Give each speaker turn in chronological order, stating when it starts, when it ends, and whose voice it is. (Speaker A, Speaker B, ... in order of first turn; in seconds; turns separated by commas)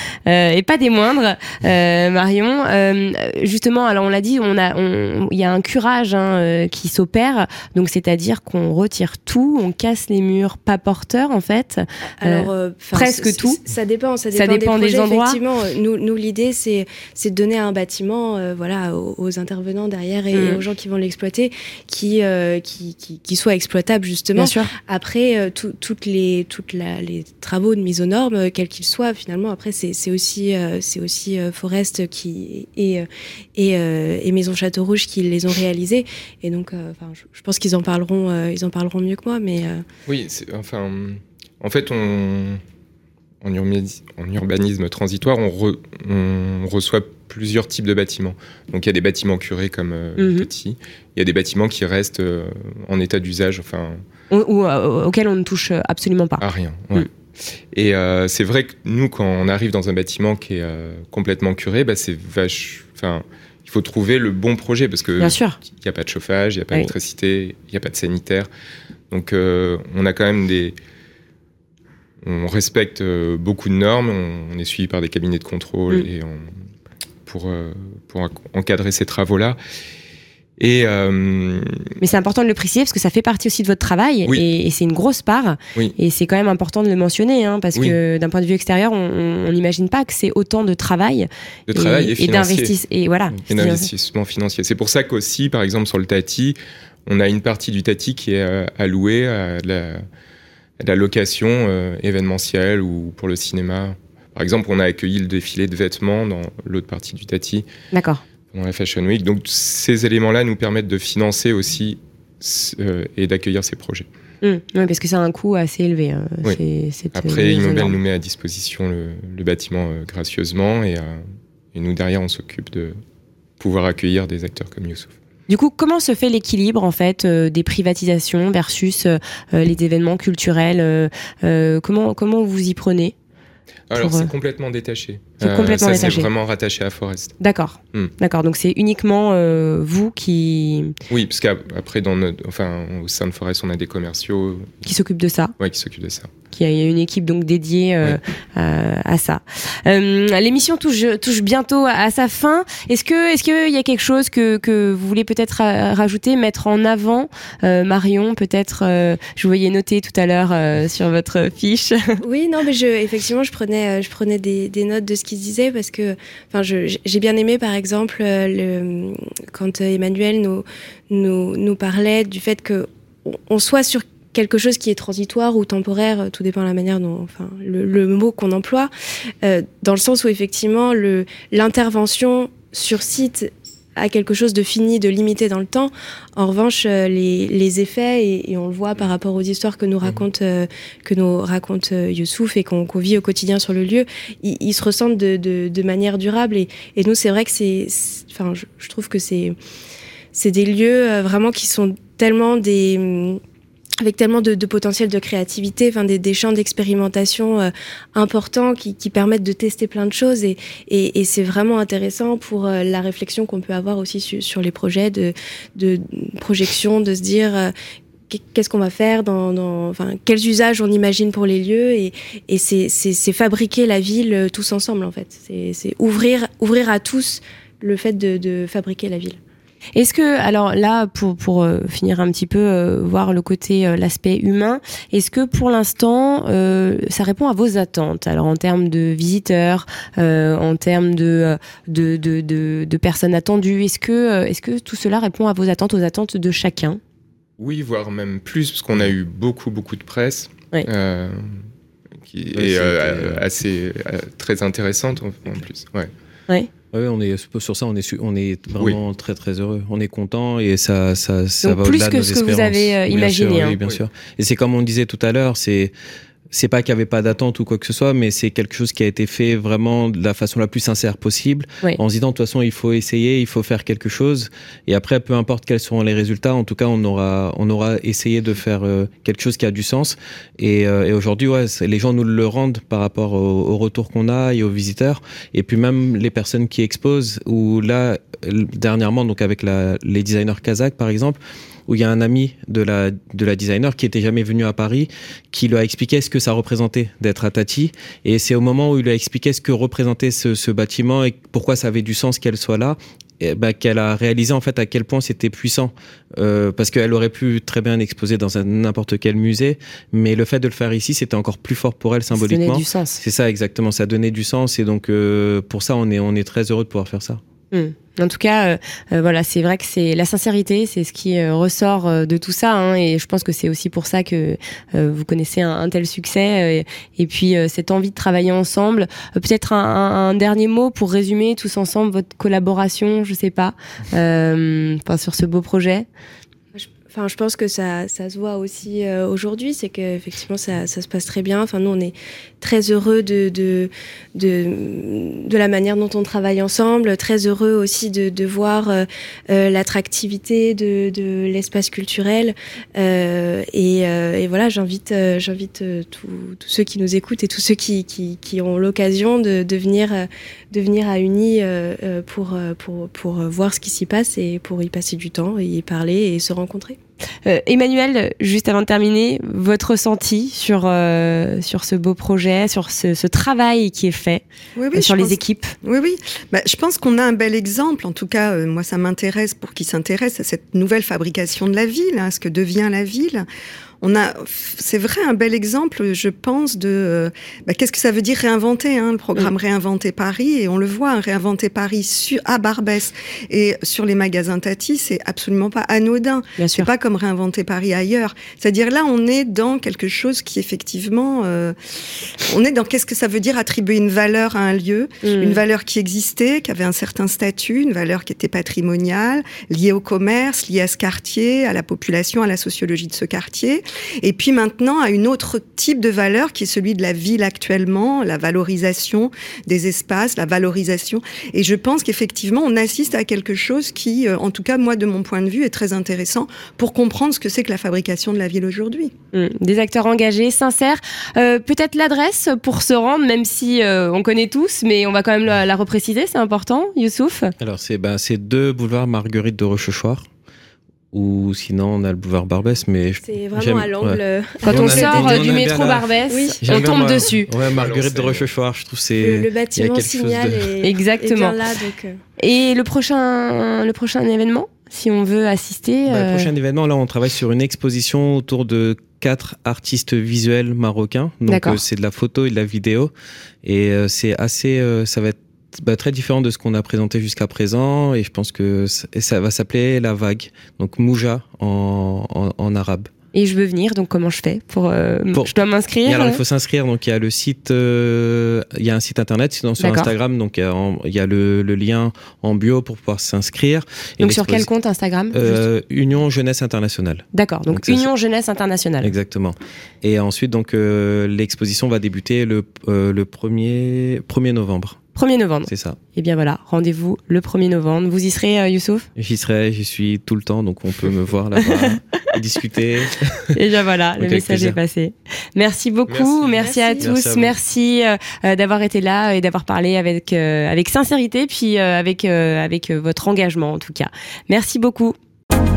Speaker A: 0.2-13.6, Speaker B: 12.2-39.8, Speaker A: 14.3-15.4, Speaker A: 20.3-20.6, Speaker A: 24.4-24.7, Speaker C: 40.1-42.6, Speaker C: 43.4-54.0, Speaker A: 50.2-50.5, Speaker A: 54.3-56.4, Speaker C: 56.4-57.1, Speaker C: 57.7-68.5, Speaker A: 65.2-65.6, Speaker C: 69.1-70.8, Speaker C: 72.2-76.5, Speaker C: 77.3-79.6, Speaker C: 80.6-81.9, Speaker A: 82.0-93.9, Speaker C: 91.7-92.7, Speaker C: 93.5-100.0, Speaker C: 100.8-107.7, Speaker A: 107.9-108.2, Speaker C: 108.5-114.1, Speaker A: 114.4-118.0, Speaker C: 117.1-123.0, Speaker C: 123.6-125.1, Speaker A: 125.5-133.1, Speaker C: 133.9-137.3, Speaker A: 133.9-134.3, Speaker A: 135.4-136.3, Speaker A: 137.4-140.9, Speaker C: 141.1-144.8, Speaker A: 144.8-145.5, Speaker C: 145.6-146.3, Speaker A: 146.5-162.2, Speaker B: 162.2-178.9, Speaker B: 179.4-199.6, Speaker B: 200.3-203.4, Speaker B: 204.0-217.7, Speaker B: 218.3-229.4, Speaker A: 229.9-247.0, Speaker C: 247.6-251.6, Speaker C: 252.3-256.1, Speaker D: 252.5-253.4, Speaker D: 256.9-265.9, Speaker A: 261.6-263.8, Speaker D: 266.5-317.4, Speaker A: 312.3-313.2, Speaker A: 317.7-336.1, Speaker B: 336.7-367.0, Speaker A: 367.4-374.4, Speaker E: 374.8-383.4, Speaker A: 374.9-375.7, Speaker E: 384.0-401.8, Speaker A: 396.6-396.9, Speaker E: 402.4-429.1, Speaker A: 405.2-405.6, Speaker A: 429.3-437.5, Speaker D: 437.6-440.2, Speaker D: 441.1-446.1, Speaker B: 443.2-445.4, Speaker A: 444.6-447.5, Speaker B: 446.3-446.6, Speaker D: 446.6-450.8, Speaker C: 447.6-448.5, Speaker B: 449.2-452.2, Speaker A: 450.8-451.6, Speaker A: 452.4-456.5, Speaker D: 456.1-463.1, Speaker A: 461.5-461.8, Speaker D: 463.6-473.1, Speaker A: 473.3-476.4, Speaker D: 476.0-484.7, Speaker A: 479.8-480.1, Speaker A: 484.2-485.6, Speaker D: 485.3-488.1, Speaker A: 487.3-489.1, Speaker D: 489.0-495.0, Speaker A: 495.1-499.1, Speaker D: 495.6-496.0, Speaker D: 499.1-503.6, Speaker A: 501.6-501.9, Speaker A: 503.5-515.1, Speaker D: 504.2-504.8, Speaker C: 506.1-506.7, Speaker B: 506.6-507.1, Speaker D: 507.0-507.5